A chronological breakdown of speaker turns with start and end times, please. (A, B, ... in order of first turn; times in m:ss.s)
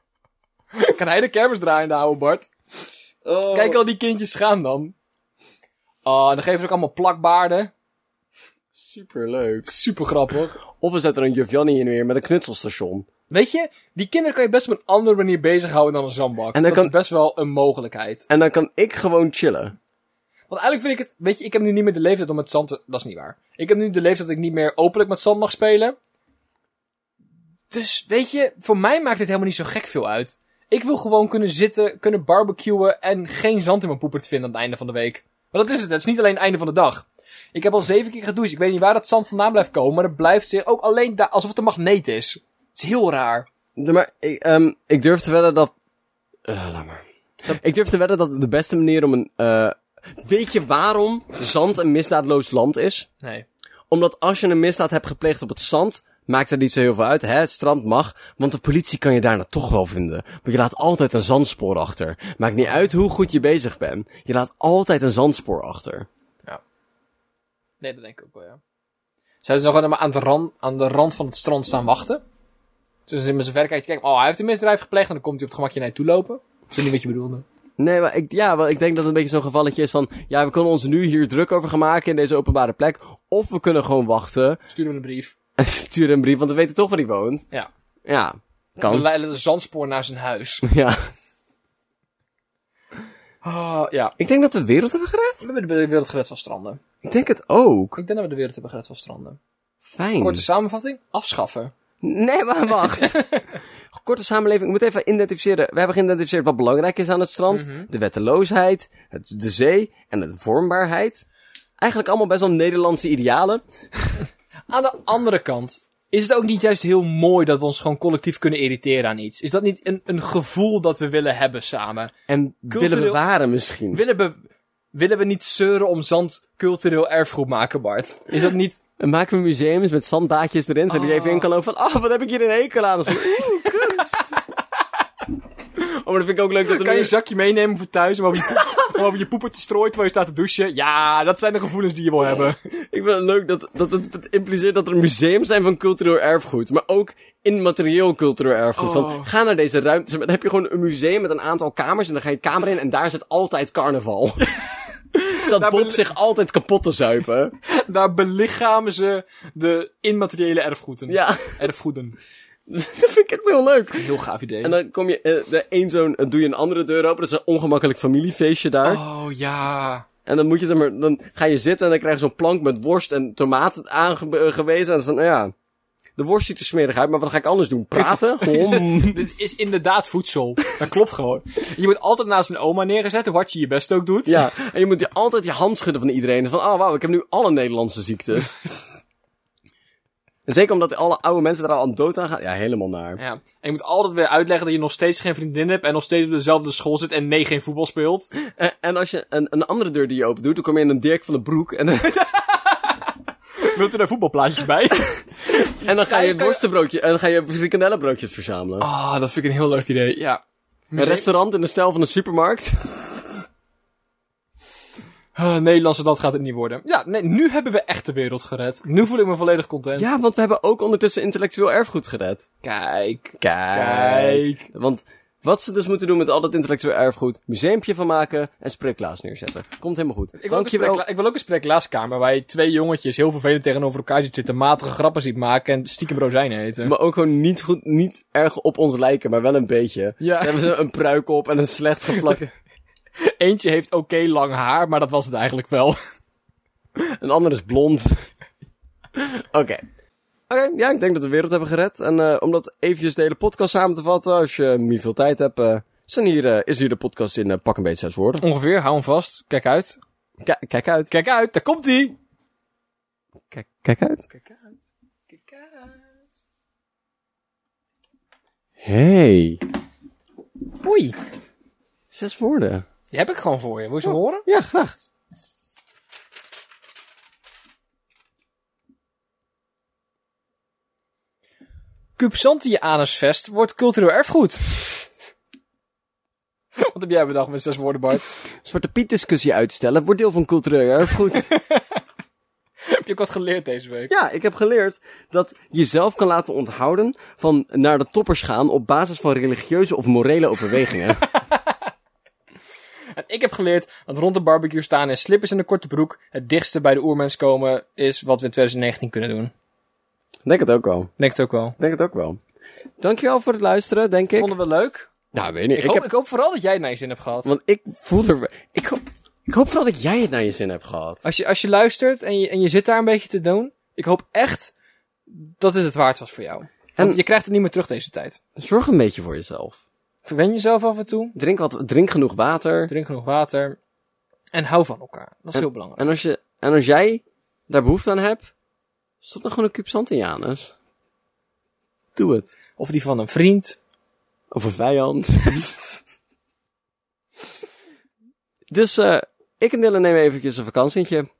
0:00.7-0:02.5 A
0:03.2-0:03.8 B
0:03.5-0:04.9 A
0:06.0-0:07.7 A
0:08.8-0:09.7 B
0:09.7-0:10.6 A
0:10.7-0:13.1 B
0:13.3-0:18.2 A
0:16.5-0:16.9 B
0:18.3-0:19.7 B
0:20.5-0:26.0 A
0:27.7-0:43.5 A
0:43.8-0:45.7 B
0:46.5-0:53.1 B
0:53.9-1:06.1 B
1:02.6-1:02.9 A
1:07.8-1:08.6 A
1:09.4-1:12.2 A
1:13.1-1:17.4 A
1:17.8-1:24.6 B
1:24.7-1:25.3 A
1:25.6-1:27.5 B
1:28.0-1:29.1 B
1:28.8-1:30.6 A
1:30.6-1:31.0 B
1:33.4-1:34.1 A
1:34.2-1:35.4 B
1:35.4-1:36.8 A
1:37.0-1:38.0 B
1:38.0-1:39.4 A
1:39.9-1:40.4 B
1:40.2-1:41.7 A
1:42.0-1:43.2 B
1:42.9-1:43.4 A
1:43.9-1:51.2 B
1:47.5-1:47.9 A
1:51.8-1:54.2 B
1:54.7-2:02.1 A
2:02.3-2:04.0 B
2:02.7-2:03.2 A
2:03.9-2:04.4 A
2:04.9-2:08.8 A
2:09.0-2:14.4 B
2:10.9-2:11.5 A
2:13.2-2:14.0 A
2:15.8-2:17.1 B
2:16.6-2:22.6 A
2:22.6-2:34.6 B
2:28.8-2:29.3 A
2:35.1-2:37.5 B
2:35.3-2:36.0 A
2:37.7-2:42.2 A
2:41.1-2:41.6 B
2:42.7-2:44.1 B
2:44.0-2:44.8 A
2:44.6-2:49.0 B
2:48.8-2:50.0 A
2:50.2-2:55.5 B
2:56.2-2:59.2 B
2:58.0-3:04.5 A
3:04.2-3:08.6 B
3:10.4-3:13.2 B
3:13.2-3:18.3 A
3:18.4-3:22.2 B
3:22.2-3:22.9 A
3:23.6-3:26.6 A
3:25.6-3:28.9 B
3:28.8-3:31.3 A
3:31.0-3:33.0 B
3:35.3-3:40.1 A
3:39.9-3:42.4 B
3:42.6-3:44.6 A
3:43.4-3:51.0 B
3:50.4-3:56.9 A
3:56.8-4:02.5 B
4:00.2-4:00.7 A
4:03.2-4:06.0 A
4:07.0-4:08.2 B
4:09.1-4:09.8 B
4:10.5-4:18.4 B
4:18.4-4:20.0 A
4:20.4-4:21.1 B
4:21.1-4:22.2 A
4:23.5-4:24.3 B
4:24.3-4:24.7 A
4:25.3-4:26.0 A
4:28.8-4:29.6 B
4:30.8-4:31.2 A
4:32.1-4:32.8 B
4:33.1-4:34.4 A
4:34.0-4:35.0 B
4:42.2-4:45.0 A
4:46.8-4:48.2 A
4:48.6-4:51.5 B
4:51.5-4:52.0 A
4:52.9-4:54.1 A
4:54.1-5:01.3 B
5:03.1-5:09.5 A
5:10.4-5:11.1 B
5:11.2-5:11.8 A
5:11.8-5:12.4 B
5:13.0-5:14.6 B
5:14.4-5:15.1 A
5:15.3-5:16.1 B
5:15.8-5:17.5 A
5:17.4-5:21.2 B
5:21.2-5:24.7 A
5:25.3-5:28.4 A
5:28.6-5:29.8 B
5:30.2-5:31.3 A
5:31.4-5:32.9 B
5:32.9-5:33.8 A
5:34.5-5:36.1 A
5:35.5-5:38.5 B
5:39.2-5:40.7 B
5:42.2-5:42.5 B
5:42.8-5:43.8 A
5:44.5-5:45.7 B
5:48.7-5:51.3 B